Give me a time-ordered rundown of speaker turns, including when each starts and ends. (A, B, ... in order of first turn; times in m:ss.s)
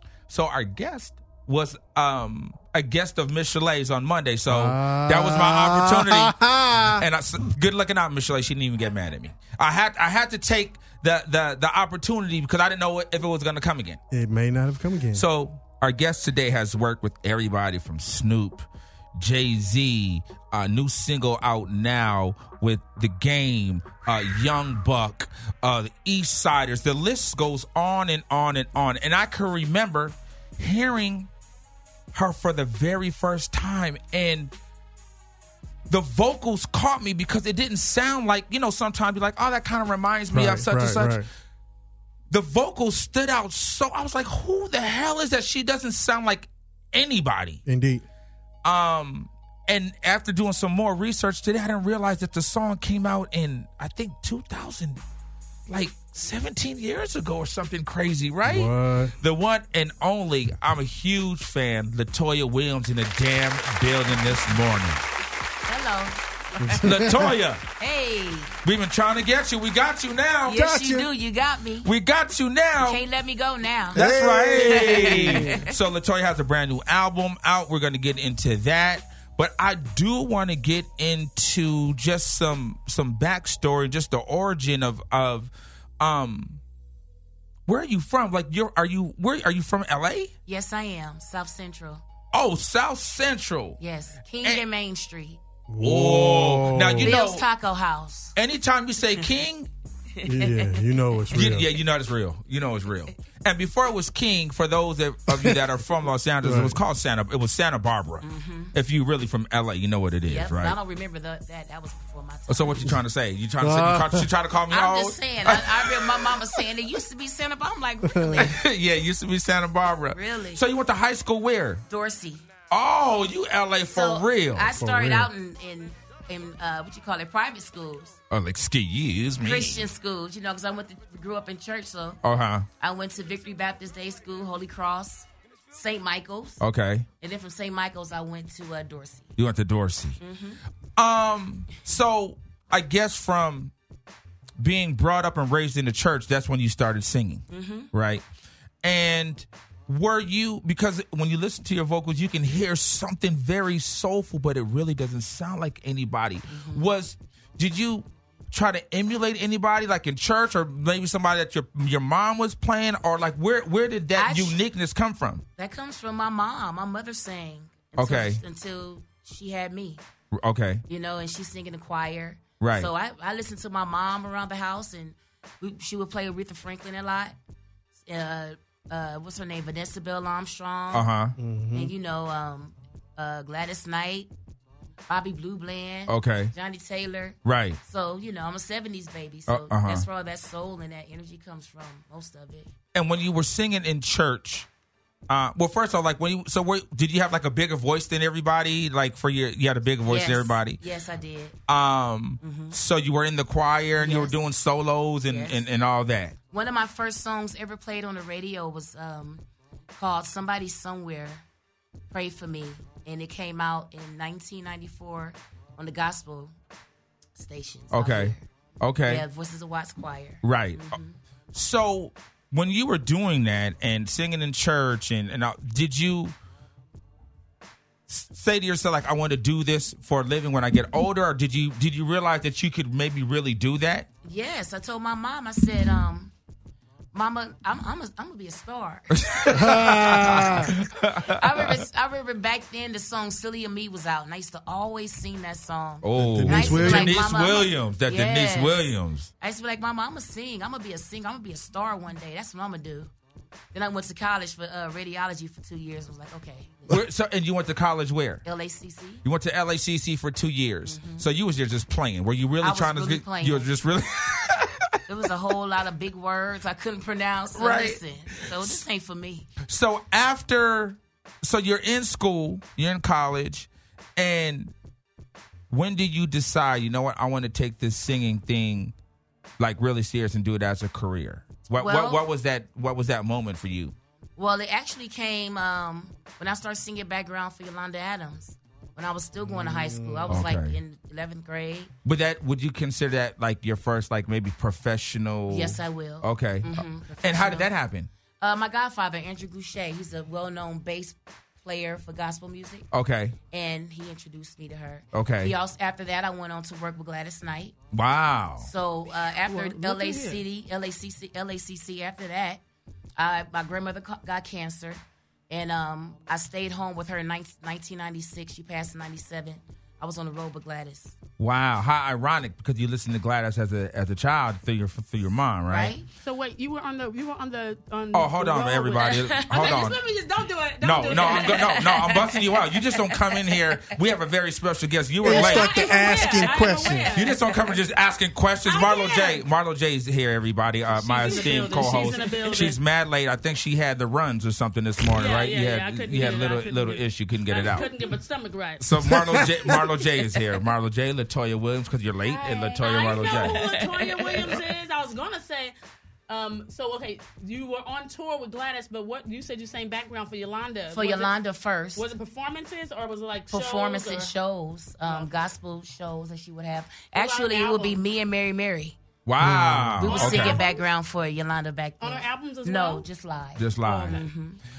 0:00.3-0:14.0 A
0:04.5-0:07.0 B
0:14.1-0:15.2 B
0:15.1-0:31.3 A
0:32.1-0:34.5 A
0:35.9-0:41.2 A
0:40.3-0:41.3 B
0:42.3-0:47.6 A
0:47.6-0:48.0 B
0:48.6-0:55.0 A
0:55.7-1:05.0 A
0:58.4-0:59.1 B
1:05.6-1:07.0 C
1:06.6-1:07.4 B
1:06.8-1:07.6 A
1:07.8-1:08.6 C
1:08.6-1:10.6 A
1:10.4-1:11.9 C
1:10.5-1:11.1 B
1:11.8-1:13.0 A
1:12.8-1:14.0 C
1:13.9-1:15.6 B
1:13.9-1:26.6 A
1:14.6-1:15.6 C
1:27.7-1:30.3 A
1:30.4-1:32.0 C
1:32.3-1:33.8 A
1:33.8-1:35.4 C
1:35.7-1:37.1 B
1:35.8-1:37.4 A
1:37.0-1:38.4 C
1:38.4-1:39.7 A
1:40.2-1:40.8 C
1:40.2-1:41.7 B
1:41.3-1:50.8 A
1:45.3-1:45.6 B
1:46.4-1:46.8 B
1:48.2-1:48.7 C
1:50.2-1:53.0 C
1:52.5-1:56.4 A
1:53.6-1:54.3 B
1:54.7-1:58.6 C
1:58.0-1:58.4 B
1:58.4-2:01.8 A
2:00.1-2:00.6 C
2:01.9-2:02.4 C
2:02.7-2:04.7 A
2:03.9-2:08.2 C
2:04.7-2:05.3 B
2:08.3-2:09.8 A
2:09.4-2:12.2 C
2:12.2-2:12.6 A
2:12.8-2:16.6 C
2:16.6-2:17.0 A
2:17.2-2:19.3 C
2:19.4-2:20.2 A
2:20.2-2:20.6 C
2:21.0-2:23.7 A
2:24.6-2:28.2 A
2:27.5-2:27.9 C
2:28.8-2:45.4 A
2:36.5-2:36.9 C
2:44.1-2:44.6 C
2:45.6-2:50.0 C
2:48.0-2:48.4 A
2:50.3-2:50.8 A
2:50.9-2:57.3 C
2:52.6-2:52.9 A
2:58.0-3:01.1 C
3:00.9-3:01.3 A
3:01.4-3:01.9 B
3:01.7-3:04.3 C
3:05.1-3:12.7 C
3:06.1-3:06.5 A
3:07.4-3:07.8 A
3:09.5-3:10.0 A
3:12.9-3:14.7 A
3:15.3-3:20.8 A
3:20.1-3:21.6 C
3:21.7-3:26.3 A
3:22.4-3:22.8 C
3:24.0-3:24.3 C
3:25.3-3:25.6 C
3:26.5-3:29.4 C
3:29.9-3:31.4 C
3:32.1-3:36.5 C
3:37.4-3:38.4 C
3:37.9-3:39.2 A
3:39.0-3:41.2 C
3:40.4-3:41.0 A
3:41.5-3:46.3 A
3:48.1-3:54.1 A
3:54.2-3:56.3 C
3:57.1-3:59.2 C
3:59.1-4:01.8 A
3:59.5-4:00.7 B
4:01.3-4:08.9 C
4:06.0-4:09.3 A
4:06.2-4:07.3 B
4:09.4-4:13.1 C
4:13.7-4:17.0 C
4:16.9-4:18.4 A
4:18.4-4:19.2 C
4:19.2-4:24.9 A
4:20.8-4:21.2 C
4:22.6-4:23.7 C
4:25.1-4:29.5 C
4:27.5-4:28.0 A
4:29.6-4:34.7 A
4:35.7-4:38.9 A
4:39.6-4:43.9 A
4:41.7-4:42.2 C
4:44.4-4:51.9 C
4:49.4-4:50.5 B
4:50.3-4:50.8 A
4:52.0-4:58.1 A
4:55.5-4:57.7 C
4:58.4-5:02.9 C
5:02.9-5:03.4 A
5:03.5-5:07.7 C
5:05.1-5:05.5 A
5:07.9-5:08.7 A
5:08.6-5:12.6 C
5:09.4-5:10.4 D
5:13.2-5:21.2 C
5:21.4-5:25.9 A
5:25.7-5:26.1 C
5:26.2-5:32.2 D
5:28.1-5:30.0 A
5:30.8-5:47.9 A
5:35.2-5:37.2 B
5:35.2-5:37.5 D
5:38.6-5:39.4 D
5:40.9-5:42.8 D
5:41.3-5:42.0 C
5:45.1-5:48.9 D
5:48.8-5:53.8 A
5:49.1-5:49.8 B
5:52.2-5:55.7 D
5:56.3-6:01.4 D
6:00.9-6:02.0 C
6:01.9-6:04.3 D
6:03.5-6:09.0 C
6:05.0-6:05.3 D
6:07.1-6:08.0 D
6:09.2-6:10.6 A
6:09.4-6:10.0 B
6:10.0-6:14.6 C
6:10.0-6:10.8 D
6:12.0-6:13.0 D
6:13.6-6:14.2 A
6:13.8-6:14.3 D